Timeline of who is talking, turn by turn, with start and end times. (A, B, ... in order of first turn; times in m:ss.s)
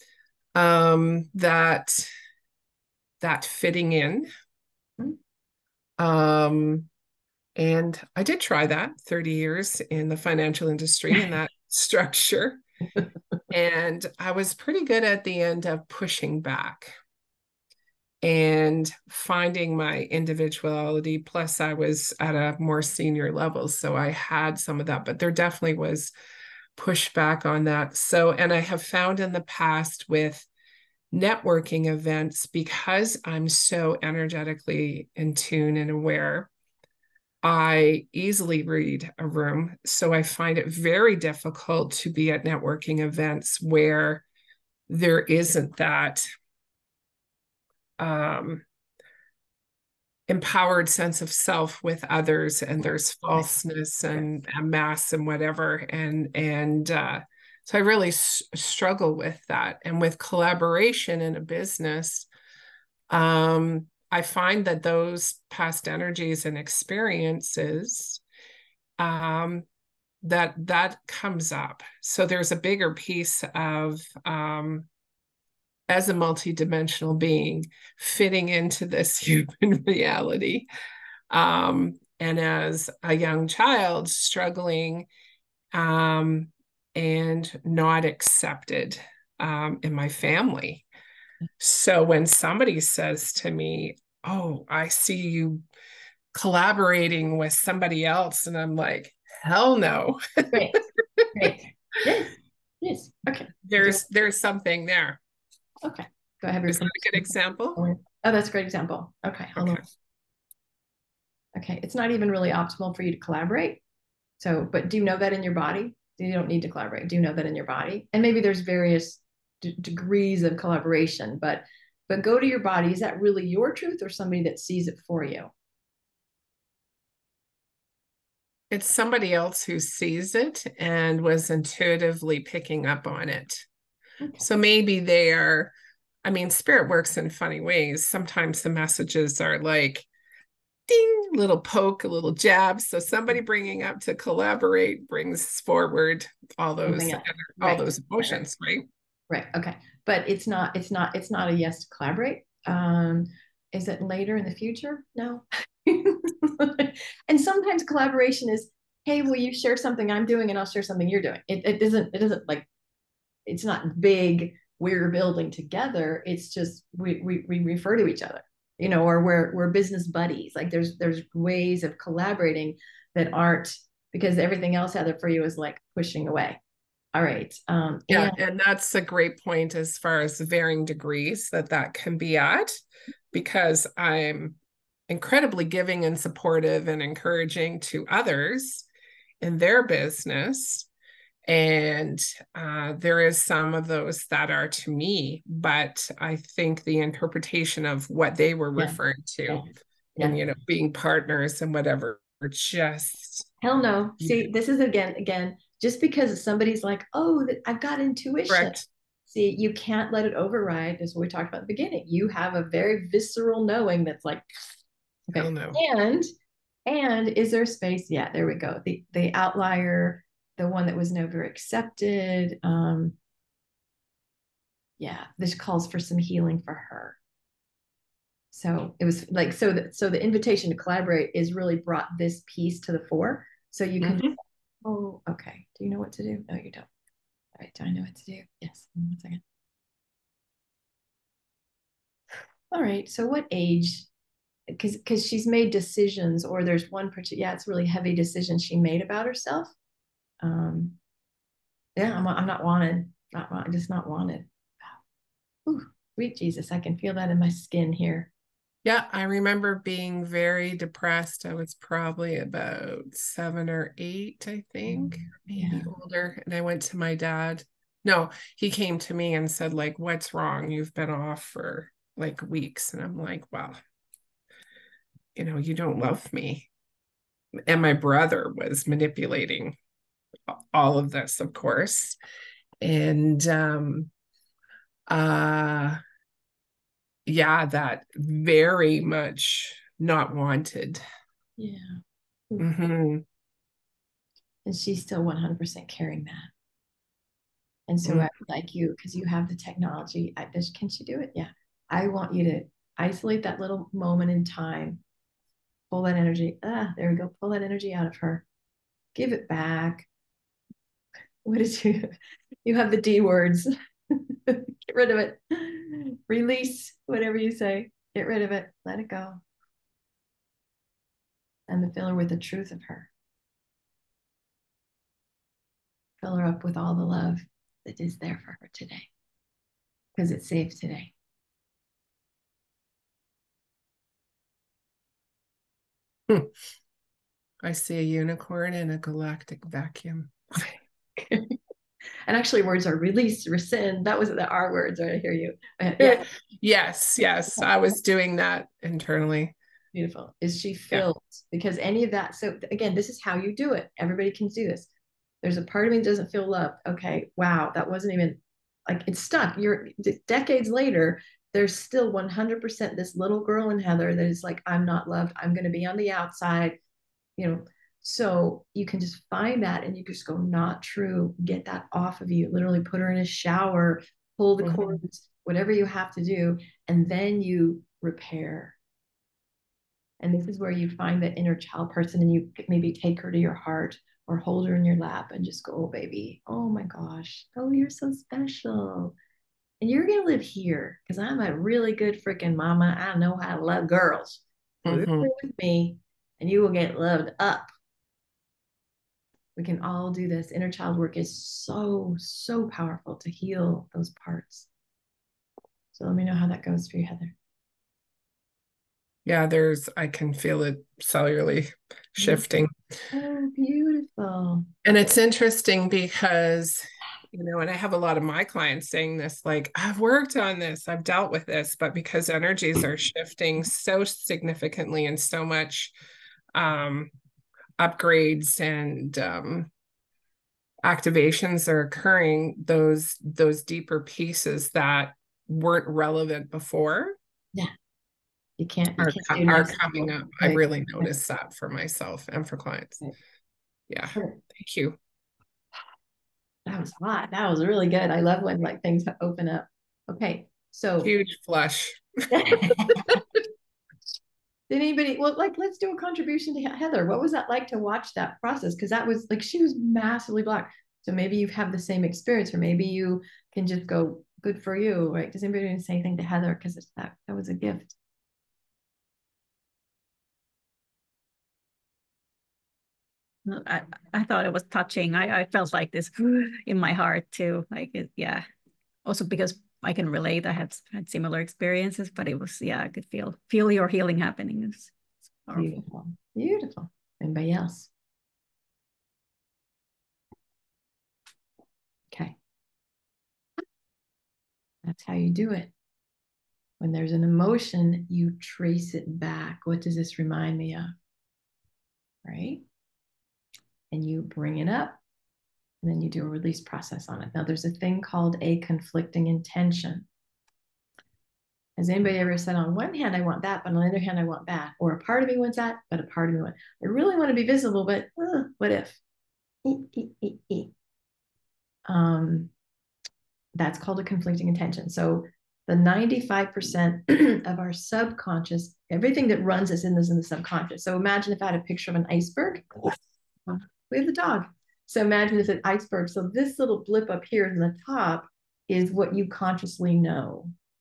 0:00.6-0:02.1 A
0:03.2-0:04.3 A
0:06.0-0:06.9 A
0:07.6-0:12.6 A
0:13.5-0:16.9 A
0:18.2-0:26.1 A
0:26.8-0:30.5 A
0:31.1-0:36.5 A
0:37.4-0:44.2 A
0:44.9-0:46.2 A
0:48.0-0:48.6 A
0:50.3-1:02.3 A
1:03.1-1:08.2 A
1:09.0-1:09.7 A
1:10.2-1:14.9 A
1:15.9-1:20.7 A
1:21.3-1:25.1 A
1:25.7-1:30.9 A
1:31.6-1:35.6 A
1:36.3-1:41.5 A
1:40.5-1:40.8 B
1:41.4-1:44.0 B
1:43.6-1:45.2 A
1:45.8-1:49.8 B
1:46.7-1:47.8 A
1:49.6-1:49.9 A
1:51.6-1:53.8 B
1:54.4-2:05.5 B
2:08.7-2:13.7 A
2:14.4-2:15.7 A
2:16.2-2:20.1 A
2:20.9-2:28.8 A
2:26.8-2:28.4 B
2:29.3-2:42.7 B
2:43.5-2:56.6 B
2:57.1-2:58.4 B
2:58.1-3:02.8 A
3:03.3-3:04.6 A
3:05.1-3:08.9 A
3:09.4-3:10.9 A
3:11.5-3:19.7 A
3:18.8-3:20.4 B
3:20.2-3:23.5 A
3:23.6-3:36.3 B
3:28.5-3:28.8 A
3:35.4-3:35.8 A
3:36.9-3:43.2 B
3:45.0-3:47.2 B
3:48.5-3:56.9 B
3:54.0-3:54.4 A
3:57.6-3:59.4 B
4:02.7-4:04.1 B
4:04.7-4:09.7 B
4:10.4-4:11.0 B
4:12.0-4:15.0 B
4:15.7-4:18.3 B
4:18.8-4:33.8 A
4:24.9-4:25.9 B
4:35.4-4:36.7 A
4:37.7-4:39.8 A
4:40.5-4:42.2 A
4:42.8-4:44.1 A
4:45.1-4:46.0 A
4:47.3-4:51.0 A
4:51.6-4:52.0 B
4:52.6-4:53.2 A
4:54.6-4:56.5 B
4:57.9-5:05.0 B
4:58.0-4:58.3 A
5:05.9-5:08.4 B
5:09.2-5:10.1 B
5:11.4-5:12.1 B
5:12.6-5:19.4 B
5:21.7-5:23.1 B
5:26.2-5:29.1 B
5:30.2-5:31.1 B
5:37.6-5:40.7 A
5:41.2-5:41.6 B
5:42.3-5:46.3 B
5:46.0-5:49.6 A
5:49.9-5:54.9 B
5:55.4-6:06.8 B
6:07.4-6:18.8 B
6:14.6-6:15.0 A
6:20.2-6:29.2 B
6:29.8-6:37.7 B
6:34.8-6:35.3 A
6:39.6-6:44.7 B
6:45.9-6:47.3 B
6:49.2-6:52.7 A
6:53.1-6:54.7 B
6:54.8-7:05.9 A
7:06.5-7:07.1 A
7:07.8-7:09.7 A
7:10.8-7:17.2 A
7:18.6-7:21.1 B
7:19.0-7:23.0 A
7:23.9-7:25.0 A
7:26.7-7:31.1 B
7:31.0-7:33.2 A
7:32.3-7:33.2 B
7:34.7-7:48.0 B
7:53.5-7:58.4 C
7:59.0-8:04.9 C
8:05.5-8:05.8 C
8:05.5-8:07.9 B
8:14.8-8:15.7 B
8:16.8-8:20.9 B
8:22.2-8:22.6 B
8:23.9-8:25.0 B
8:25.8-8:30.1 B
8:31.8-8:39.0 B
8:39.6-8:40.7 B
8:41.9-8:42.5 B
8:43.6-9:00.5 B